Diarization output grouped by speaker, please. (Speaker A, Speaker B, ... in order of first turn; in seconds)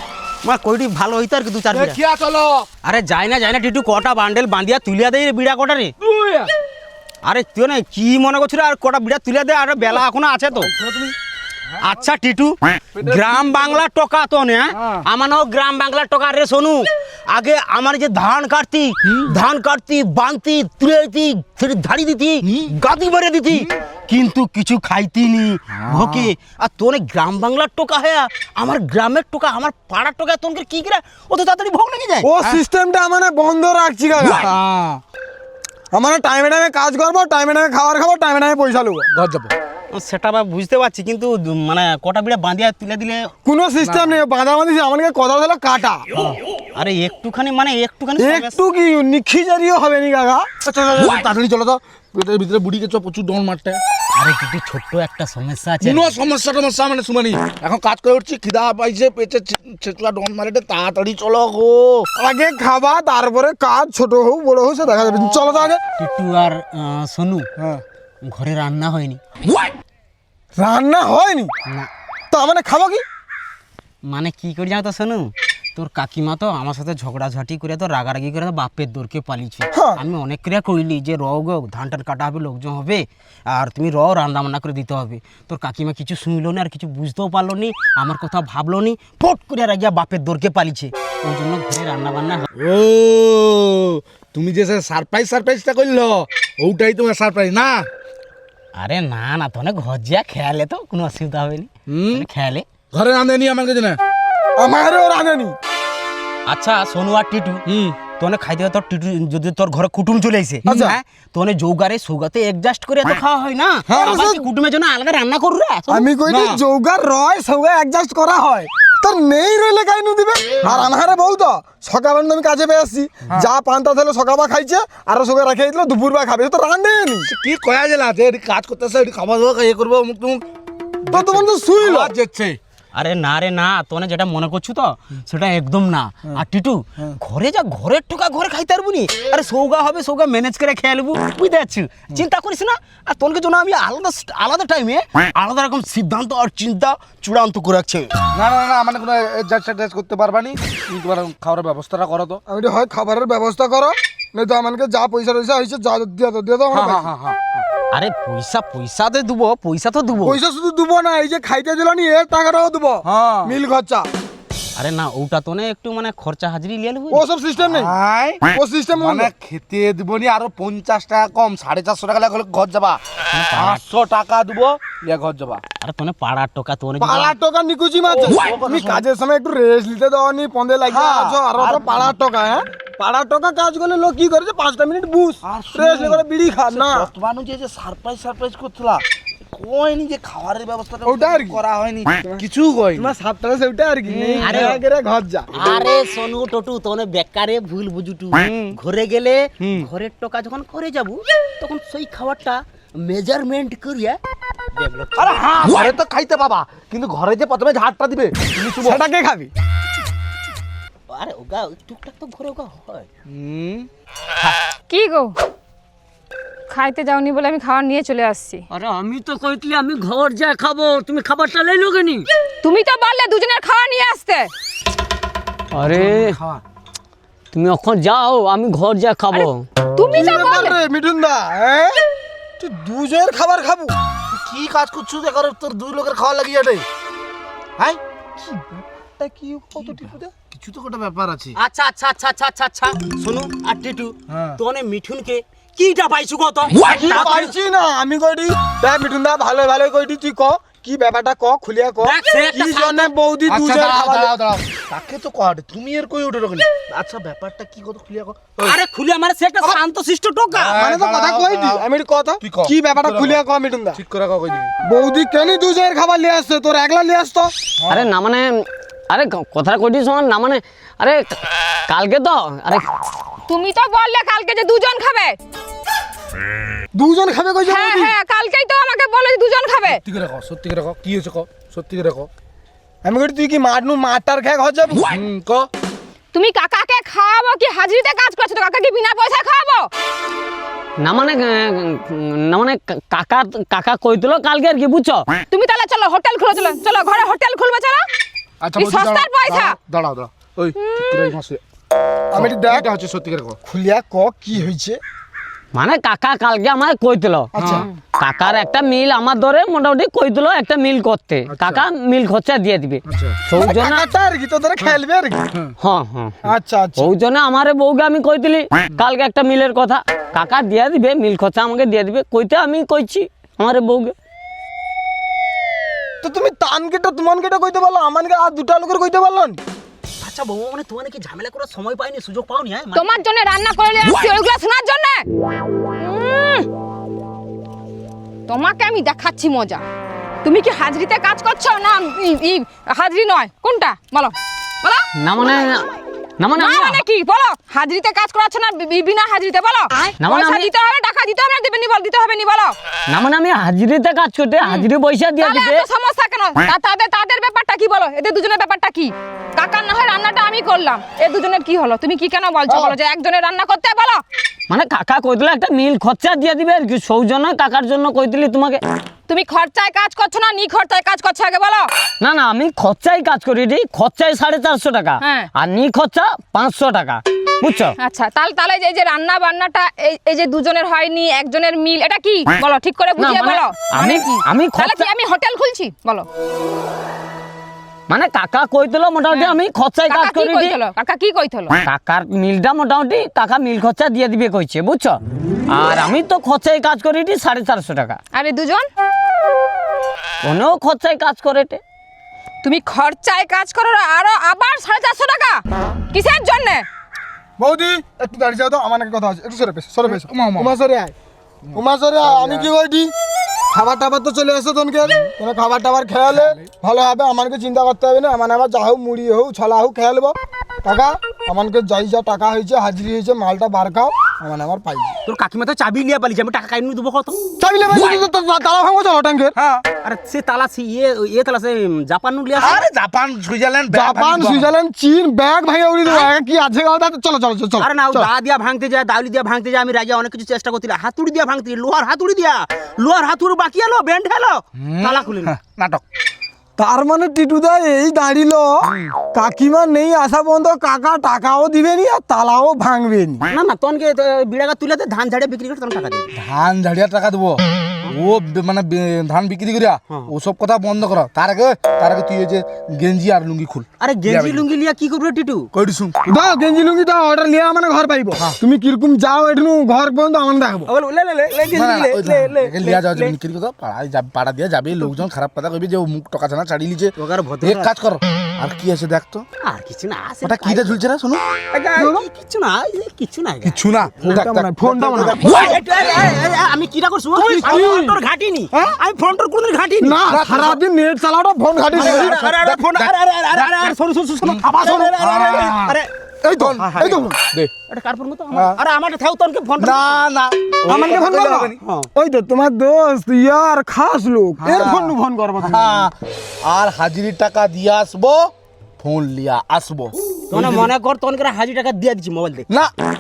Speaker A: 0.4-2.0, 2.8-5.9, 7.2-10.7, 11.8-32.3, 39.9-43.3, 46.7-48.6, 54.1-56.2, 66.0-67.5, 68.3-69.2, 74.1-92.5, 98.8-102.7, 106.5-116.1, 132.9-148.1, 157.9-160.4, 164.8-167.2, 173.3-173.8, 175.8-177.3, 194.4-194.8, 195.6-204.2, 204.8-205.5, 211.1-213.1, 241.6-247.6, 252.0-253.1, 257.4-257.7, 258.6-260.8, 330.2-333.2, 425.3-427.5, 430.0-432.9, 437.8-445.5, 453.5-456.3, 464.0-465.7, 470.9-473.4, 477.2-477.9, 479.6-481.0, 481.7-484.4, 484.9-490.2, 491.9-496.1, 496.8-497.2, 497.9-500.2, 501.8-502.1, 510.5-512.7
Speaker B: 1.7-2.7, 6.0-6.5, 10.7-11.1, 13.0-13.8, 14.7-15.1, 19.0-19.4, 22.4-22.7, 25.7-26.3, 34.2-35.0, 39.1-39.5, 43.8-44.2, 50.6-53.8, 55.8-62.1, 92.6-97.9, 101.9-102.3, 102.9-104.0, 107.7-108.0, 116.3-116.6, 127.2-130.4, 131.1-132.6, 148.3-152.4, 156.7-157.7, 163.1-163.5, 167.6-173.0, 173.5-175.6, 178.0-179.0, 180.9-181.8, 185.4-193.1, 194.1-194.8, 205.2-209.0, 213.3-213.9, 225.9-226.6, 234.3-236.9, 239.9-241.6, 244.3-244.6, 253.5-258.8, 260.5-261.8, 262.4-263.4, 263.9-264.7, 279.9-282.3, 285.1-285.7, 298.6-301.6, 302.3-303.6, 307.6-307.9, 311.5-311.9, 313.1-313.4, 410.1-410.7, 412.4-412.6, 429.6-429.8, 432.6-434.7, 444.8-446.0, 456.3-464.7, 465.7-466.2, 471.7-479.4, 480.4-481.4, 483.6-485.5, 490.2-490.8, 491.9-496.0, 496.6-497.7, 499.8-501.8, 504.6-510.9
Speaker C: 32.2-34.5, 35.9-39.1, 43.5-46.1, 48.2-50.5, 62.2-65.8, 70.6-71.5, 72.3-73.0, 79.7-80.0, 104.6-105.5, 110.7-111.0, 113.9-114.5, 115.9-127.3, 131.1-132.1, 152.5-157.1, 160.2-164.1, 167.1-167.9, 168.5-169.3, 177.0-187.1, 191.1-191.6, 192.9-195.5, 208.8-209.5, 230.1-232.0, 232.6-233.9, 238.4-240.3, 246.8-254.3, 260.8-264.0, 264.8-267.5, 276.9-278.1, 283.0-285.1, 302.3-302.9, 303.7-305.0, 307.5-307.9, 313.6-315.4, 316.4-317.1, 326.2-329.6, 407.6-411.1, 411.7-413.1, 413.7-425.2, 427.6-429.6, 433.9-438.3, 446.8-453.5, 466.3-470.9, 481.9-482.3, 484.2-485.8, 487.4-488.2, 490.0-492.4, 494.8-495.1, 496.4-497.4, 500.9-506.1
Speaker D: 214.9-215.3, 216.7-218.7, 222.6-224.5, 229.3-230.8, 273.5-275.4, 277.7-280.0, 286.3-289.9, 295.5-298.1, 298.8-299.8, 332.9-335.3, 336.0-336.7, 338.5-339.8, 340.4-345.1, 346.6-352.8, 355.4-364.2, 369.3-371.9, 375.2-375.5, 378.0-386.3, 389.3-391.8, 398.3-398.9, 402.6-406.9
Speaker E: 218.7-222.3, 225.7-226.4, 227.5-229.7, 267.9-272.9, 291.0-295.3, 305.7-307.5, 308.0-314.1, 315.8-316.3, 317.0-324.1, 345.2-347.0, 350.2-350.7, 353.1-355.9, 364.7-368.8, 372.2-377.9, 383.2-385.1, 388.1-390.8, 391.8-398.2, 400.4-401.8